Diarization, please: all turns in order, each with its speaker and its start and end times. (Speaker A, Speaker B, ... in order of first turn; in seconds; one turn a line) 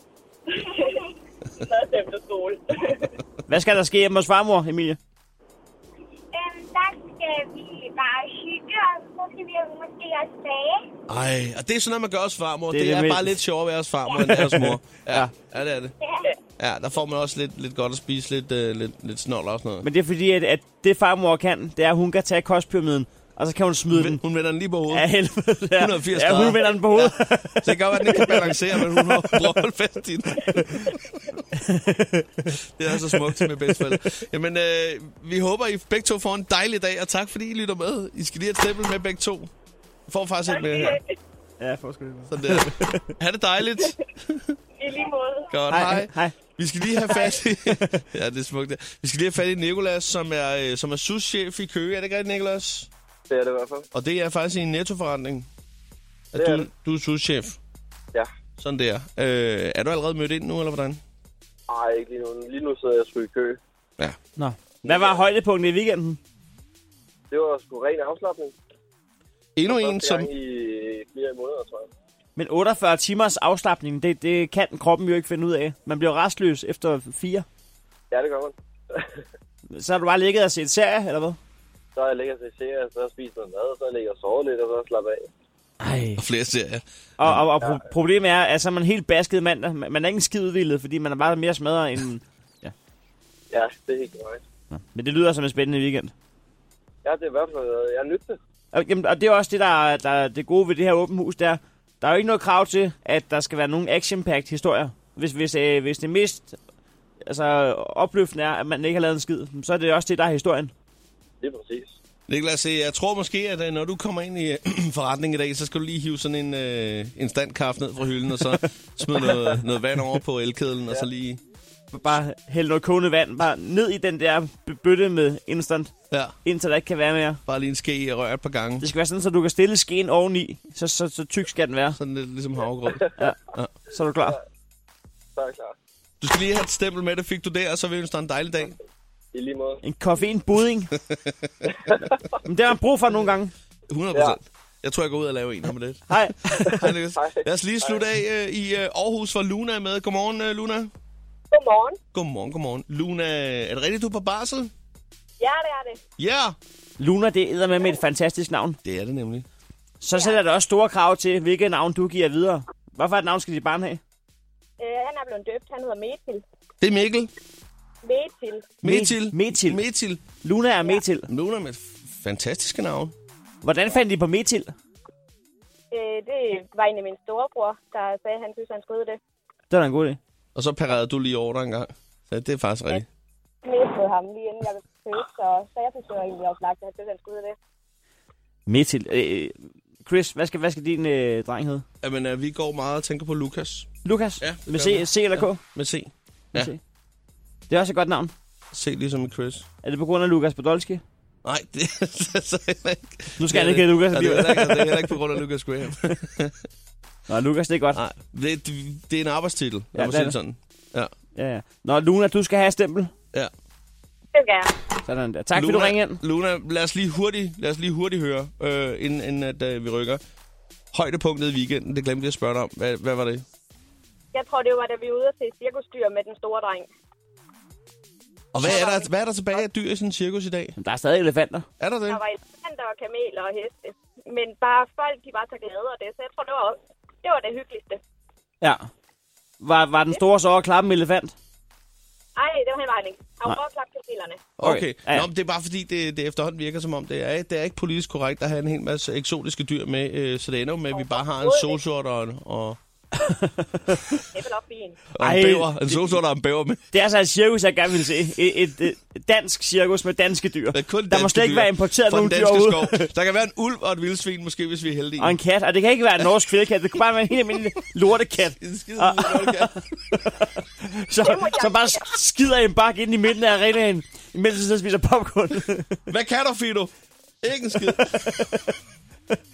Speaker A: 0.5-3.1
Speaker B: 3.5-5.0
Speaker C: 6.3-10.8
Speaker D: 11.1-15.9
Speaker B: 12.7-13.4
Speaker B: 14.4-15.3
Speaker D: 16.6-19.9
Speaker B: 19.8-24.2
Speaker D: 23.9-25.1
Speaker B: 24.9-29.4
Speaker D: 25.7-31.1
Speaker B: 31.5-32.5
Speaker D: 32.8-39.5
Speaker D: 40.1-41.0
Speaker A: 40.5-41.1
Speaker B: 41.6-43.1
Speaker D: 42.3-44.6
Speaker A: 44.8-45.5
Speaker D: 45.5-52.9
Speaker B: 45.7-46.3
Speaker B: 47.7-48.0
Speaker E: 53.3-53.9
Speaker D: 53.9-55.5
Speaker D: 56.3-57.6
Speaker E: 56.4-56.7
Speaker D: 58.6-61.0
Speaker E: 61.7-63.6
Speaker B: 64.4-66.2
Speaker E: 64.8-65.2
Speaker E: 67.3-68.5
Speaker D: 69.5-70.3
Speaker E: 69.7-71.9
Speaker B: 72.3-77.5
Speaker E: 78.1-79.0
Speaker B: 79.7-81.4
Speaker E: 82.0-85.3
Speaker B: 85.8-86.2
Speaker D: 86.2-87.4
Speaker B: 87.2-92.7
Speaker E: 93.5-94.4
Speaker B: 94.7-96.1
Speaker E: 97.0-98.4
Speaker B: 98.7-106.6
Speaker B: 107.2-110.7
Speaker E: 111.4-112.0
Speaker D: 112.3-121.4
Speaker B: 121.9-125.9
Speaker B: 126.4-127.4
Speaker D: 127.5-128.9
Speaker B: 128.8-132.0
Speaker D: 132.0-133.7
Speaker B: 133.9-134.4
Speaker E: 135.3-135.7
Speaker D: 136.2-138.8
Speaker E: 139.3-139.8
Speaker B: 139.8-140.9
Speaker B: 142.4-143.5
Speaker D: 143.9-150.9
Speaker B: 146.1-146.8
Speaker E: 147.1-148.0
Speaker A: 151.5-152.0
Speaker D: 152.1-154.7
Speaker A: 155.4-156.0
Speaker D: 156.2-156.6
Speaker B: 157.0-158.8
Speaker D: 158.8-159.4
Speaker B: 160.0-164.0
Speaker A: 160.1-160.4
Speaker A: 164.8-166.4
Speaker D: 166.8-167.3
Speaker A: 168.0-168.7
Speaker D: 168.8-170.2
Speaker B: 168.8-169.8
Speaker B: 170.4-171.3
Speaker D: 171.3-173.1
Speaker B: 173.6-174.7
Speaker A: 175.9-179.2
Speaker B: 179.7-180.2
Speaker D: 180.5-183.0
Speaker A: 183.6-187.6
Speaker B: 188.7-191.8
Speaker D: 192.0-193.9
Speaker B: 194.0-195.6
Speaker D: 194.4-196.7
Speaker B: 197.7-198.3
Speaker D: 198.7-199.7
Speaker B: 199.8-201.0
Speaker D: 201.4-206.6
Speaker B: 203.4-205.1
Speaker B: 207.3-208.0
Speaker D: 207.9-211.1
Speaker B: 209.9-210.3
Speaker B: 211.3-213.1
Speaker A: 214.3-214.7
Speaker B: 215.1-216.2
Speaker D: 215.5-220.2
Speaker D: 220.9-223.4
Speaker A: 224.3-226.9
Speaker D: 228.5-230.8
Speaker A: 228.6-229.1
Speaker B: 230.8-231.7
Speaker D: 231.8-232.2
Speaker A: 232.1-238.0
Speaker B: 238.6-238.9
Speaker B: 239.6-241.3
Speaker A: 242.3-244.4
Speaker D: 244.6-252.8
Speaker B: 244.6-245.3
Speaker A: 250.9-251.8
Speaker B: 253.3-254.0
Speaker A: 254.3-255.0
Speaker D: 255.1-256.8
Speaker B: 255.2-256.2
Speaker B: 256.9-263.1
Speaker D: 260.7-265.4
Speaker B: 265.2-276.0
Speaker D: 268.6-269.8
Speaker A: 271.2-272.1
Speaker D: 276.1-278.5
Speaker B: 277.9-278.6